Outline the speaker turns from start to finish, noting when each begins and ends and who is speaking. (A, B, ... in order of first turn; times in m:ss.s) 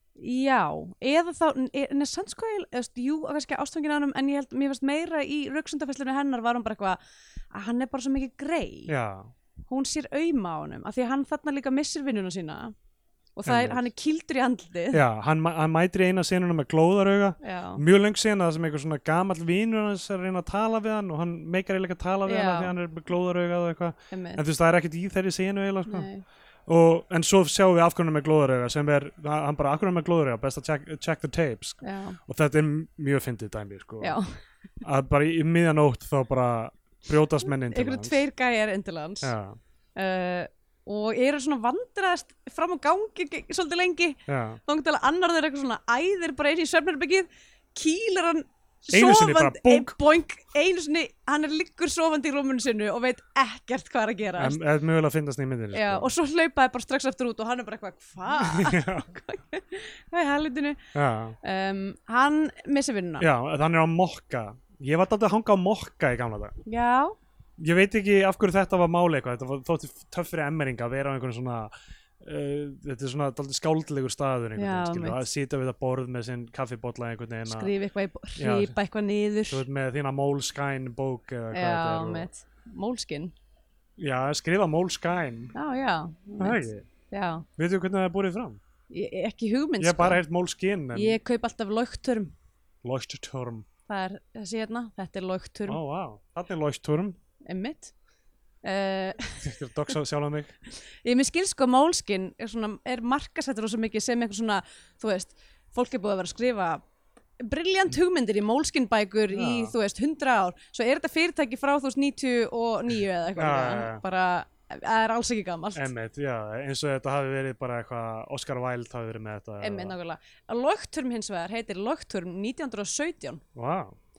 0:00.2-0:07.0 A
0:07.5-0:08.9 A
0:08.9-0:09.3 B
0:09.7-0:12.7 A
0:13.4-0:15.0 A
0:13.4-0:13.9 B
0:14.9-0:26.1 B
0:17.4-0:17.8 A
0:22.2-0:22.7 A
0:24.1-0:24.4 A
0:25.9-0:26.2 A
0:26.7-0:34.2 B
0:31.8-0:32.2 A
0:34.0-0:34.3 A
0:34.8-0:38.2 B
0:37.6-0:39.3 A
0:39.2-0:39.6 B
0:40.0-0:54.6 A
0:44.3-0:44.6 B
0:48.9-0:50.0 B
0:54.4-0:56.1 B
0:55.7-1:00.8 A
0:58.4-0:59.1 B
1:00.9-1:01.4 B
1:01.4-1:03.2 A
1:03.2-1:06.6 B
1:06.6-1:07.1 A
1:07.6-1:17.7 B
1:14.6-1:15.2 A
1:17.4-1:19.6 A
1:18.4-1:18.8 B
1:19.5-1:22.3 B
1:21.5-1:23.3 A
1:24.0-1:25.5 B
1:25.5-1:27.4 A
1:26.4-1:26.9 B
1:27.6-1:28.6 B
1:28.9-1:30.2 A
1:29.8-1:31.2 B
1:30.9-1:32.3 A
1:32.8-1:33.6 B
1:33.9-1:35.8 A
1:35.7-1:37.2 B
1:37.4-1:37.9 A
1:38.6-1:39.4 A
1:39.4-1:40.6 B
1:40.8-1:46.8 A
1:47.4-1:55.9 A
1:49.3-1:49.7 B
1:53.4-1:54.0 B
1:55.7-1:59.9 B
1:59.6-2:03.4 A
2:03.6-2:04.0 B